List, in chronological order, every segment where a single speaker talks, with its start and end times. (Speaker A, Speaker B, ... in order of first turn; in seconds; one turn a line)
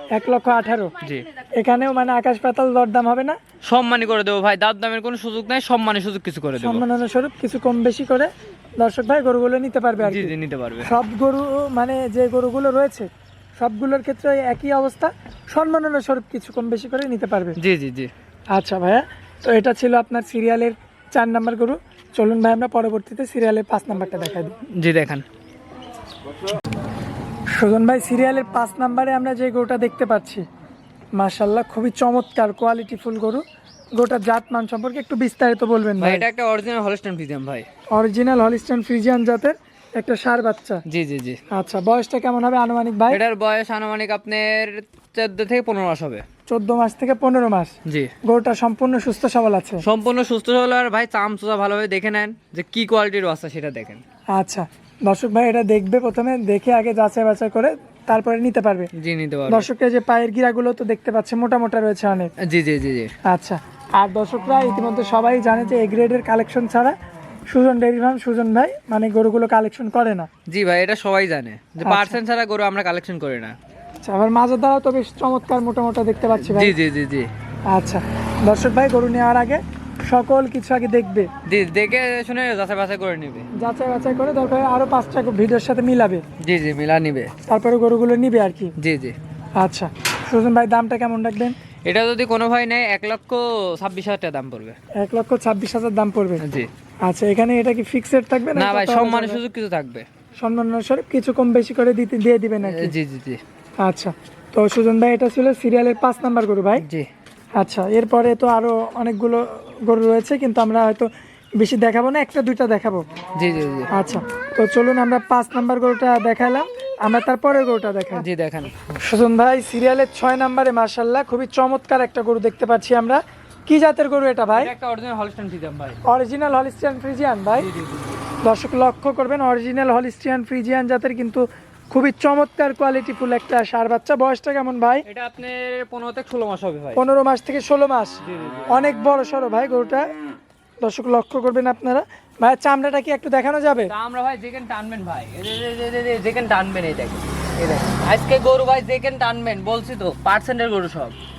Speaker A: 0.1-0.9
Speaker A: 1.6-3.4
Speaker B: 3.7-6.8
Speaker A: 6.6-17.6
Speaker B: 10.0-10.9
Speaker B: 17.6-18.1
Speaker A: 18.5-24.6
Speaker B: 24.8-25.2
Speaker A: 27.5-30.5
Speaker A: 31.2-33.4
Speaker A: 34.0-36.3
Speaker B: 36.0-37.7
Speaker A: 37.9-40.8
Speaker B: 40.9-41.4
Speaker A: 41.5-43.2
Speaker B: 43.1-46.2
Speaker A: 46.5-47.7
Speaker B: 47.9-48.1
Speaker A: 48.2-49.8
Speaker B: 49.8-54.0
Speaker A: 54.3-58.9
Speaker B: 59.0-59.7
Speaker A: 59.5-62.3
Speaker B: 62.4-63.1
Speaker A: 63.3-67.0
Speaker A: 67.5-70.3
Speaker B: 70.5-73.5
Speaker A: 71.8-72.2
Speaker A: 74.0-76.8
Speaker B: 76.4-77.3
Speaker A: 77.7-81.3
Speaker B: 81.5-83.5
Speaker A: 83.6-86.2
Speaker B: 86.4-87.3
Speaker A: 87.5-88.7
Speaker B: 88.8-89.2
Speaker A: 89.6-91.6
Speaker B: 91.8-94.8
Speaker A: 95.0-96.4
Speaker B: 96.4-96.7
Speaker A: 97.1-99.4
Speaker B: 98.5-100.1
Speaker A: 100.4-103.0
Speaker B: 102.6-103.4
Speaker A: 103.8-106.9
Speaker B: 106.8-107.1
Speaker A: 107.6-113.0
Speaker B: 113.4-113.9
Speaker A: 113.9-118.3
Speaker B: 118.1-118.7
Speaker A: 119.0-124.7
Speaker B: 124.5-126.0
Speaker A: 126.0-127.7
Speaker B: 127.5-128.3
Speaker A: 128.4-135.1
Speaker B: 135.1-137.0
Speaker A: 137.0-140.1
Speaker B: 138.2-138.8
Speaker A: 140.8-143.9
Speaker B: 143.9-151.2